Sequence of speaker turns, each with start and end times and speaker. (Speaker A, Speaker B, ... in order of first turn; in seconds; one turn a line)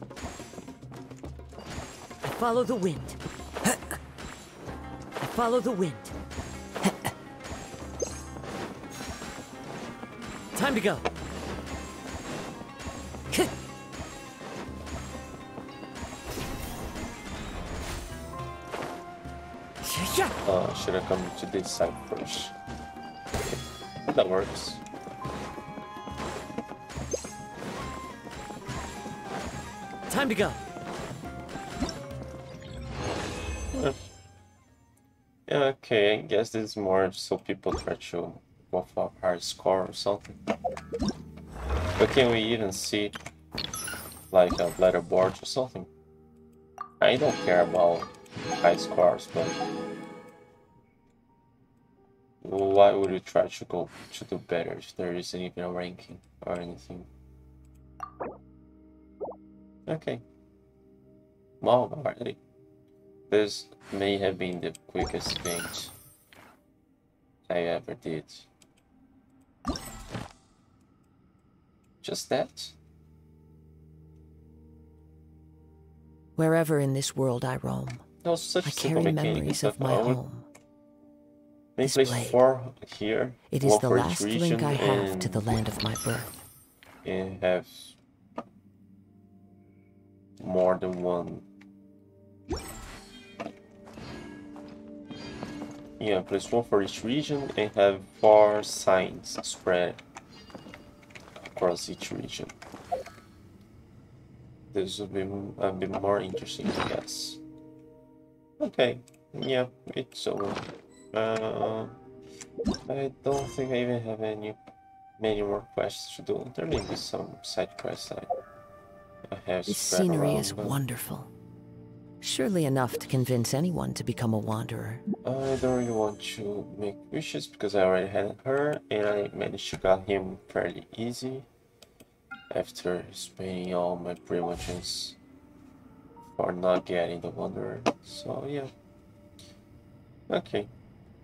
Speaker A: 2.2-3.8
Speaker A: 5.2-6.2
Speaker A: 10.6-11.1
Speaker A: 19.8-20.3
Speaker B: 20.4-22.5
Speaker B: 24.1-24.8
Speaker A: 30.1-30.6
Speaker B: 35.5-40.4
Speaker B: 42.0-43.2
Speaker B: 44.3-45.9
Speaker B: 47.0-49.6
Speaker B: 52.4-57.1
Speaker B: 59.9-60.2
Speaker B: 61.6-62.4
Speaker B: 63.3-65.9
Speaker B: 67.5-68.5
Speaker B: 72.0-72.8
Speaker A: 76.4-78.1
Speaker B: 78.2-80.2
Speaker A: 78.7-80.5
Speaker B: 81.8-85.5
Speaker A: 81.8-82.4
Speaker A: 83.5-86.4
Speaker B: 87.0-88.0
Speaker B: 90.4-91.5
Speaker B: 96.0-100.0
Speaker B: 101.4-102.5
Speaker B: 104.7-107.4
Speaker B: 108.6-112.0
Speaker B: 112.9-114.6
Speaker B: 115.2-118.3
Speaker B: 119.3-120.8
Speaker A: 119.7-121.3
Speaker A: 122.2-125.0
Speaker B: 125.2-131.5
Speaker B: 132.5-135.2
Speaker B: 136.3-138.7
Speaker B: 140.3-140.7